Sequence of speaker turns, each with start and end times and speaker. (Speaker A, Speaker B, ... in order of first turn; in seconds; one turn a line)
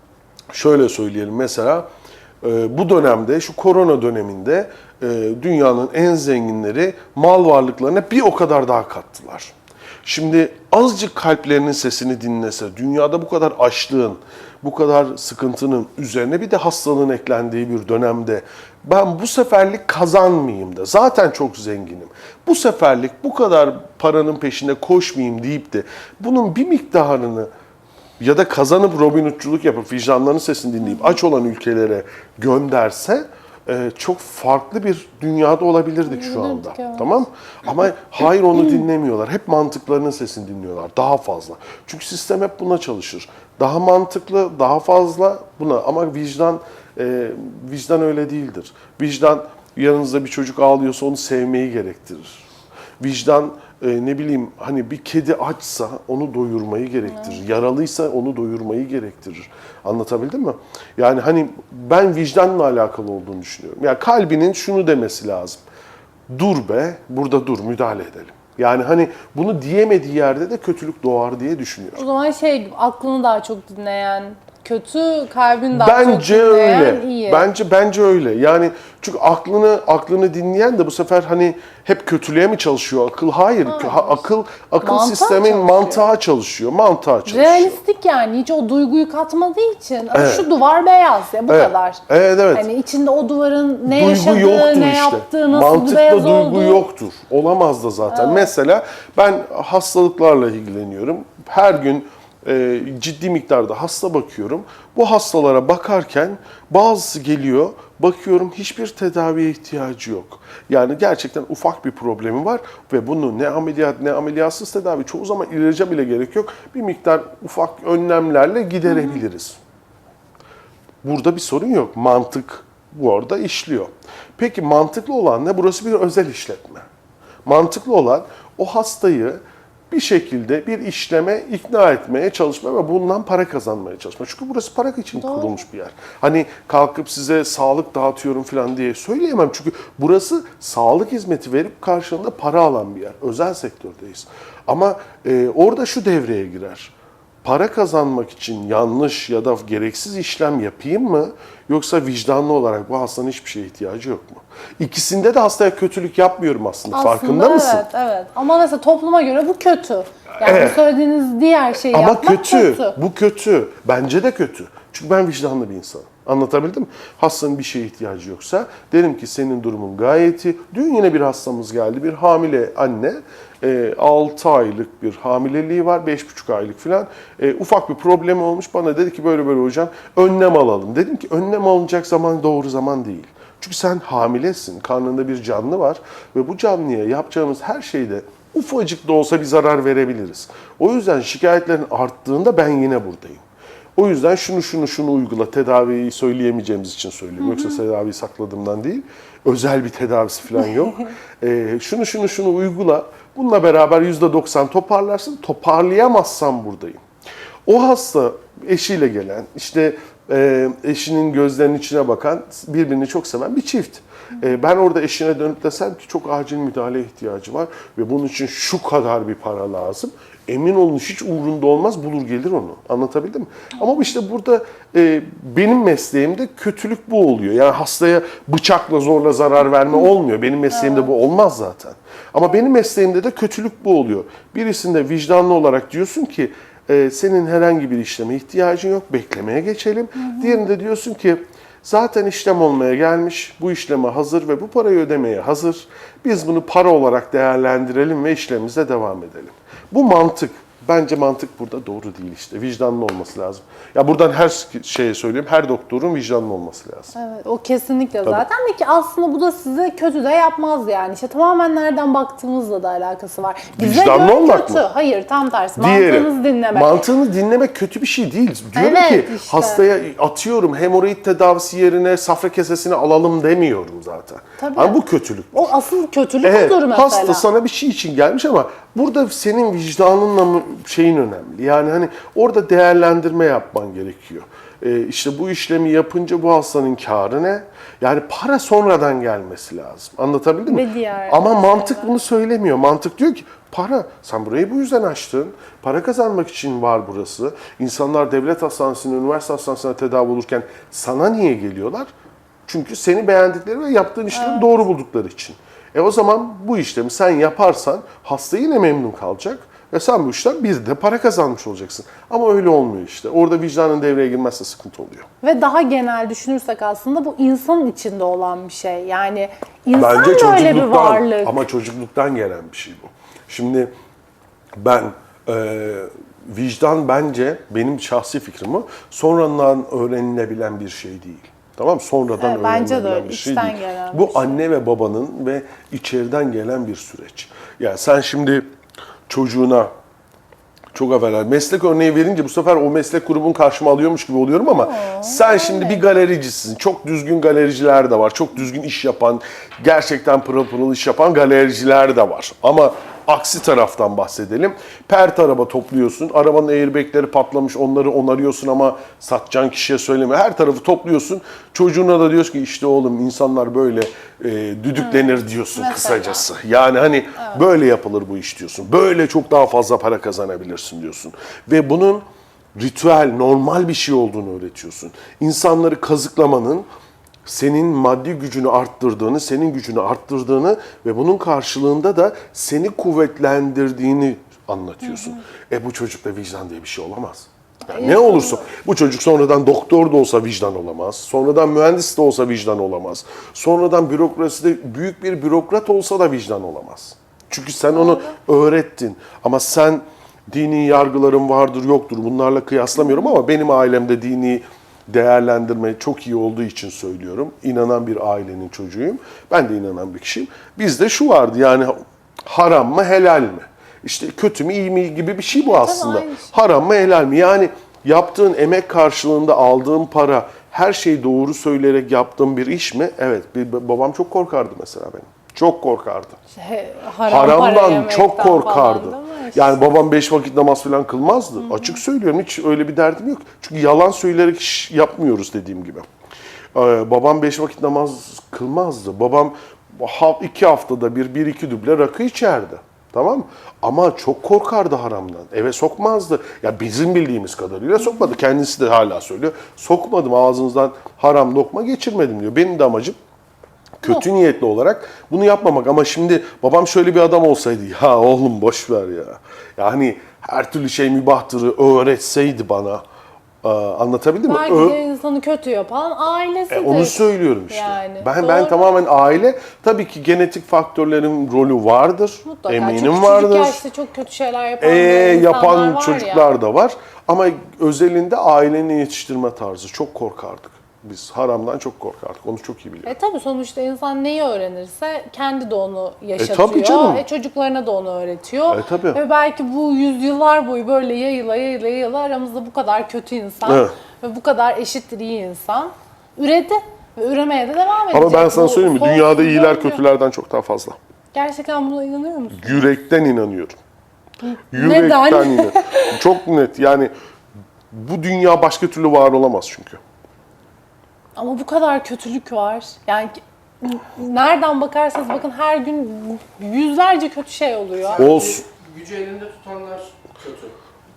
Speaker A: 0.5-1.9
Speaker A: 2.4-9.5
Speaker A: 10.0-27.5
Speaker A: 28.2-52.4
Speaker B: 36.0-37.2
Speaker A: 53.0-65.6
Speaker B: 57.1-57.4
Speaker A: 66.3-72.0
Speaker B: 72.0-77.5
Speaker A: 75.7-87.8
Speaker B: 83.7-84.2
Speaker B: 84.8-86.0
Speaker B: 87.2-92.0
Speaker A: 90.1-90.5
Speaker A: 91.5-92.7
Speaker B: 92.5-96.8
Speaker A: 93.8-119.6
Speaker B: 98.1-98.5
Speaker A: 121.0-126.9
Speaker A: 127.4-157.8
Speaker B: 135.2-135.6
Speaker B: 156.9-163.0
Speaker A: 160.4-160.8
Speaker A: 161.9-193.4
Speaker A: 193.9-207.0
Speaker A: 207.7-257.1
Speaker B: 257.1-266.9
Speaker A: 263.8-264.8
Speaker A: 265.8-275.7
Speaker B: 268.7-269.8
Speaker B: 274.6-275.0
Speaker B: 275.5-277.4
Speaker A: 276.4-302.1
Speaker B: 290.7-292.1
Speaker A: 302.6-315.2
Speaker B: 304.3-304.7
Speaker B: 315.4-321.6
Speaker A: 319.9-323.9
Speaker A: 324.8-338.7
Speaker B: 332.4-334.6
Speaker A: 339.3-339.9
Speaker A: 340.9-376.9
Speaker B: 344.6-346.0
Speaker B: 365.0-366.4
Speaker A: 377.4-426.4
Speaker B: 385.1-385.4
Speaker B: 387.9-388.6
Speaker B: 397.9-398.3
Speaker B: 415.5-416.5
Speaker B: 426.5-429.8
Speaker A: 427.3-436.1
Speaker A: 436.7-453.2
Speaker A: 454.0-463.0
Speaker A: 463.6-465.0
Speaker B: 464.4-468.8
Speaker A: 466.7-473.8
Speaker B: 472.4-476.4
Speaker A: 474.8-483.1
Speaker B: 483.1-500.0
Speaker A: 486.4-487.2
Speaker A: 488.7-489.2
Speaker A: 493.6-493.9
Speaker A: 498.1-500.9
Speaker B: 501.3-502.9
Speaker A: 502.5-503.8
Speaker B: 504.5-506.2
Speaker A: 504.7-507.1
Speaker A: 507.9-510.0
Speaker B: 511.4-518.3
Speaker C: 518.1-520.7
Speaker A: 518.1-518.6